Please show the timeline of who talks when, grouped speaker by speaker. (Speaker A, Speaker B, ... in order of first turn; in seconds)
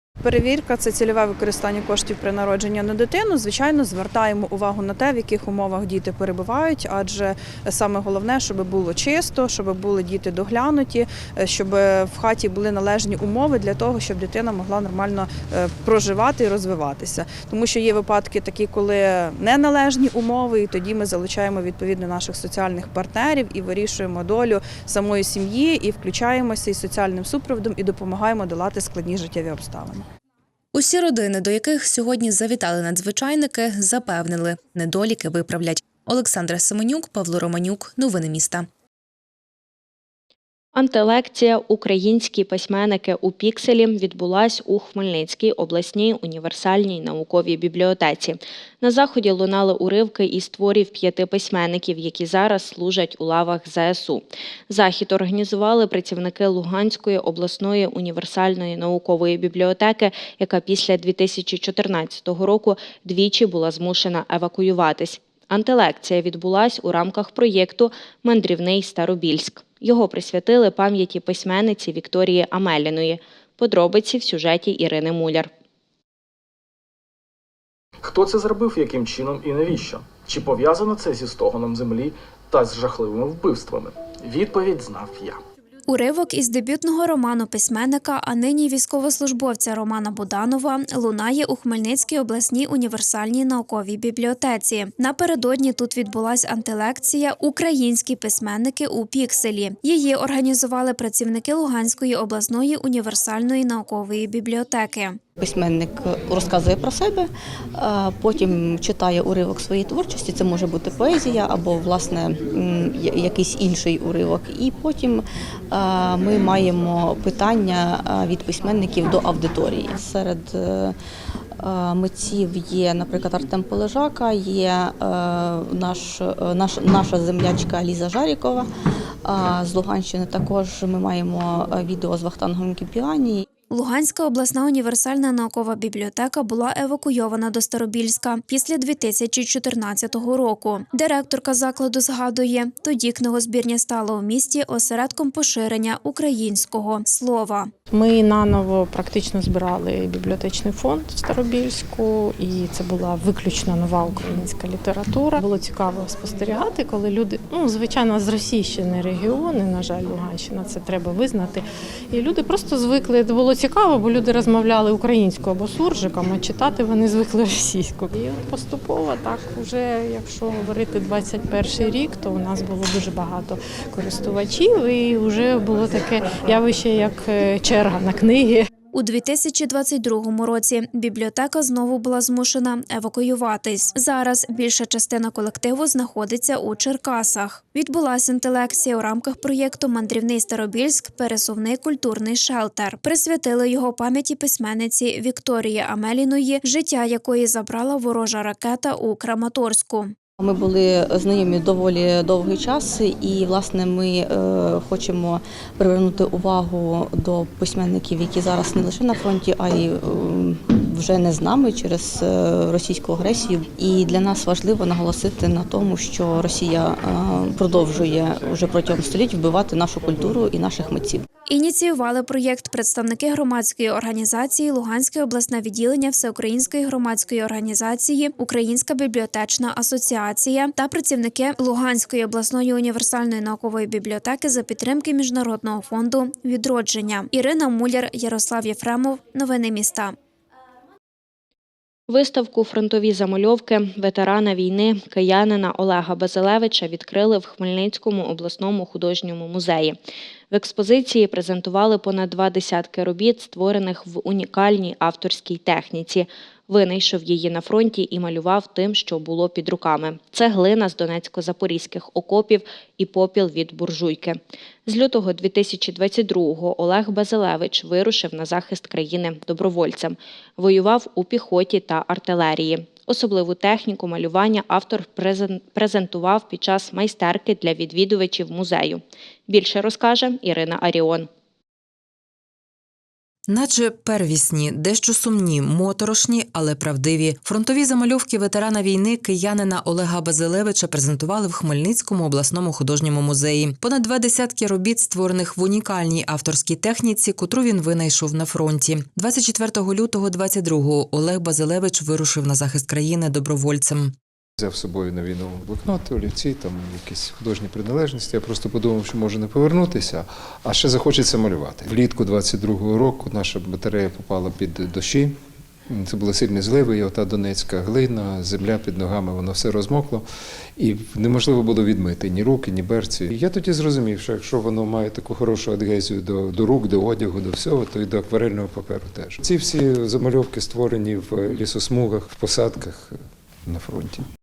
Speaker A: 0.2-30.1
Speaker B: 30.7-38.7
Speaker C: 40.7-75.5, 242.1-250.0, 250.5-281.3
Speaker D: 78.0-85.4
Speaker E: 85.9-105.2, 133.7-147.7, 178.9-200.1, 221.5-240.1
Speaker F: 105.4-121.0, 121.6-128.7, 129.2-133.4, 200.4-221.2
Speaker G: 147.9-178.7
Speaker H: 283.5-304.1
Speaker I: 304.6-334.3